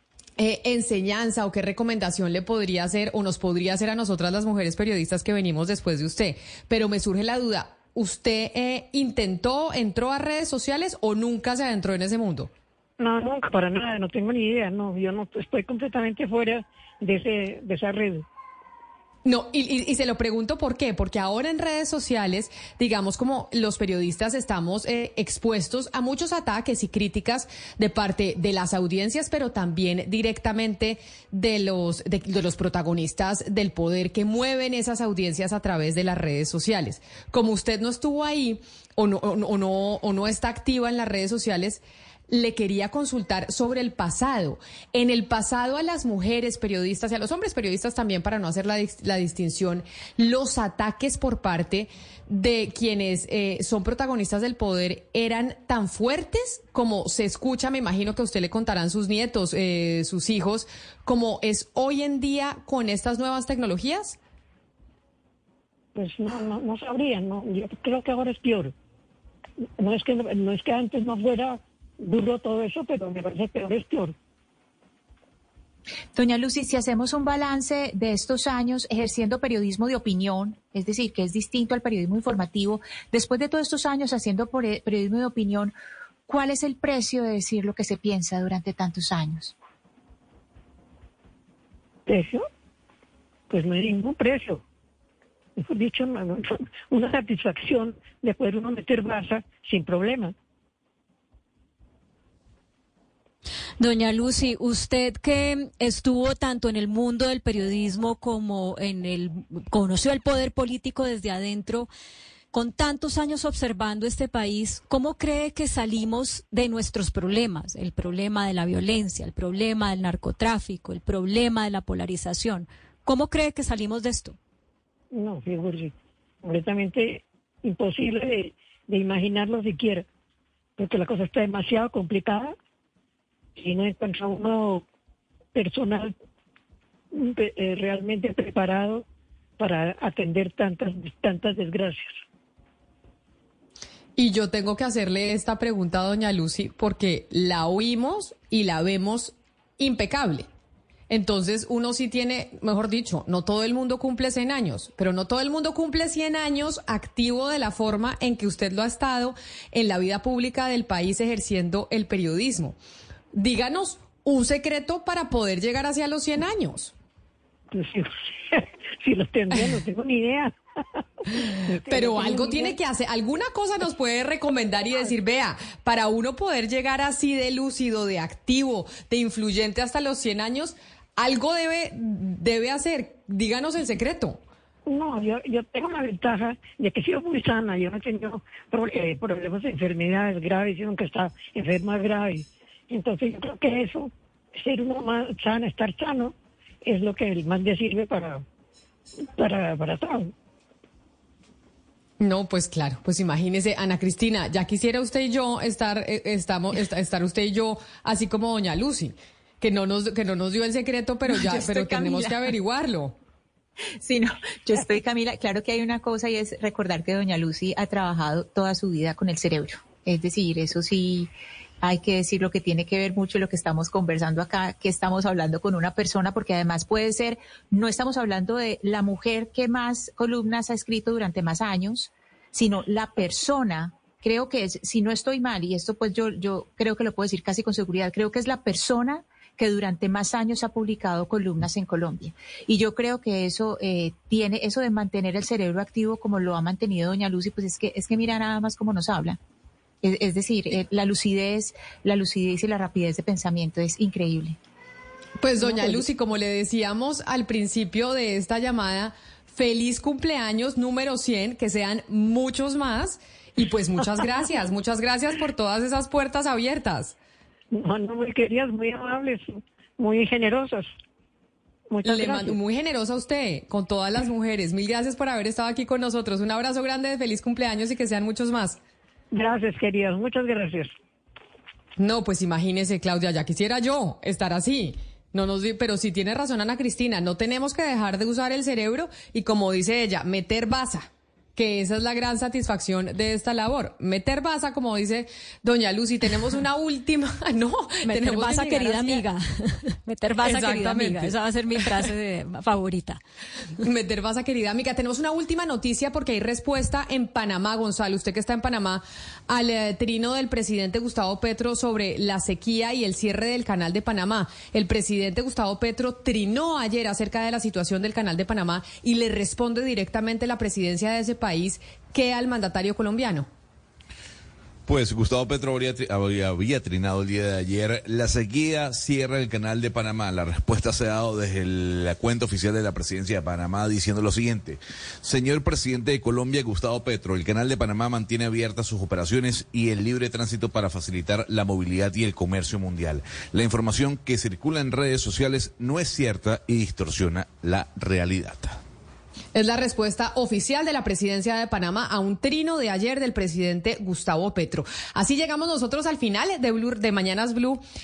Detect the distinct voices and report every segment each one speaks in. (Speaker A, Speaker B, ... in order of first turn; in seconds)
Speaker A: 0.4-12.5, 19.2-64.2, 144.2-150.5, 151.1-162.8, 163.3-166.9, 171.9-184.4, 202.2-213.1, 255.4-267.1, 272.0-278.8, 282.0-299.2, 300.4-301.8, 303.8-323.5, 349.5-357.8
Speaker B: 13.0-18.2, 65.9-68.7, 69.8-74.2, 92.1-92.5, 93.5-94.6, 95.6-100.3, 125.1-130.1, 130.8-132.5, 133.6-134.8, 135.5-136.1, 137.1-139.0, 139.6-142.2, 167.7-170.5, 171.3-172.8, 184.8-198.4, 199.3-200.3, 267.7-270.9, 271.9-272.6, 279.3-280.9
Speaker C: 76.1-85.7, 86.3-89.5, 211.3-212.5, 213.9-249.4, 250.0-254.6, 255.6-256.0
Speaker D: 103.8-111.9, 112.5-124.3, 298.1-303.2
Speaker E: 324.9-348.8